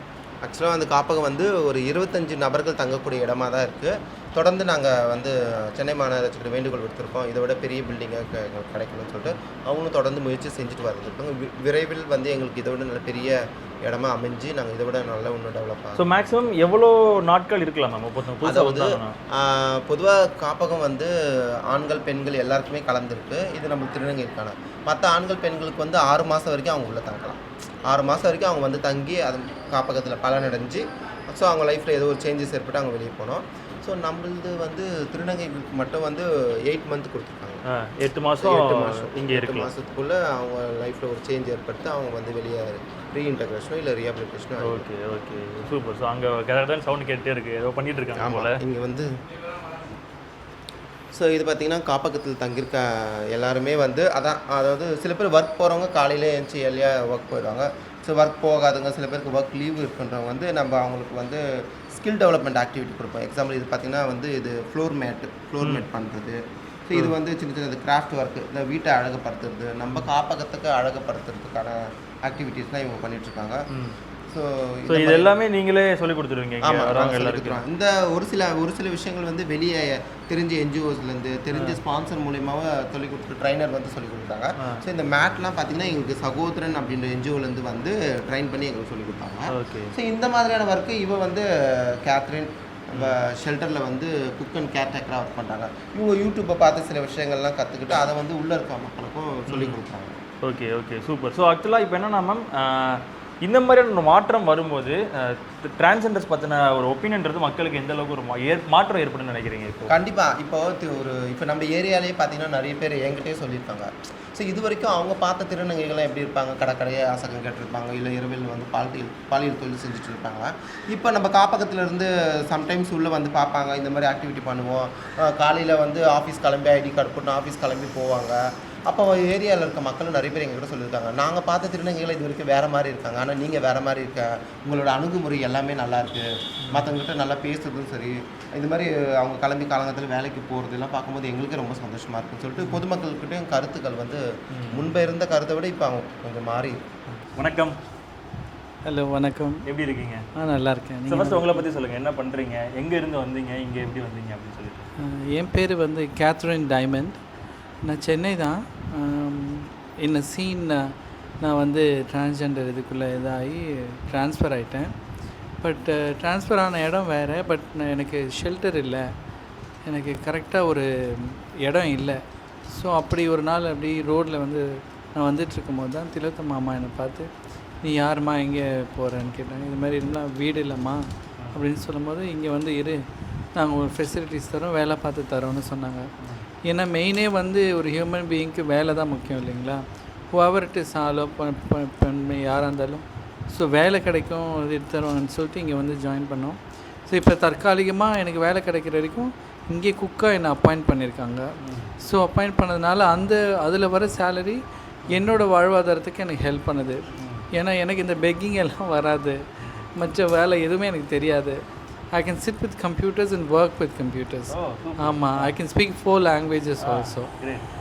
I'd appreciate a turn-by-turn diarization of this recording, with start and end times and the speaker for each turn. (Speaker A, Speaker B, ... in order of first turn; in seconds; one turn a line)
Speaker A: 0.4-16.1
Speaker B: 16.0-19.1
Speaker A: 18.4-21.1
Speaker A: 21.7-37.6
Speaker B: 37.7-39.7
Speaker A: 38.4-44.9
Speaker B: 44.6-48.6
Speaker A: 48.1-49.1
Speaker A: 51.1-73.6
Speaker B: 65.6-65.9
Speaker B: 73.7-74.0
Speaker A: 74.3-75.3
Speaker B: 74.9-77.6
Speaker A: 76.6-100.2
Speaker B: 81.5-81.8
Speaker B: 89.5-89.9
Speaker B: 99.5-99.8
Speaker B: 100.4-109.9
Speaker A: 109.9-146.8
Speaker B: 136.7-137.0
Speaker B: 144.6-145.0
Speaker B: 147.1-147.7
Speaker C: 148.8-149.6
Speaker B: 149.7-150.2
Speaker C: 150.3-151.6
Speaker B: 151.1-154.9
Speaker C: 155.0-157.2
Speaker C: 157.8-164.9
Speaker C: 165.6-169.1
Speaker C: 169.9-177.3
Speaker C: 177.8-183.0
Speaker C: 183.6-186.1
Speaker C: 186.7-201.4
Speaker B: 201.6-201.9
Speaker C: 202.0-207.0
Speaker B: 207.2-207.5
Speaker C: 207.5-209.4
Speaker B: 209.6-209.9
Speaker C: 210.0-211.6
Speaker C: 212.1-217.3
Speaker B: 214.5-215.5
Speaker B: 216.8-217.6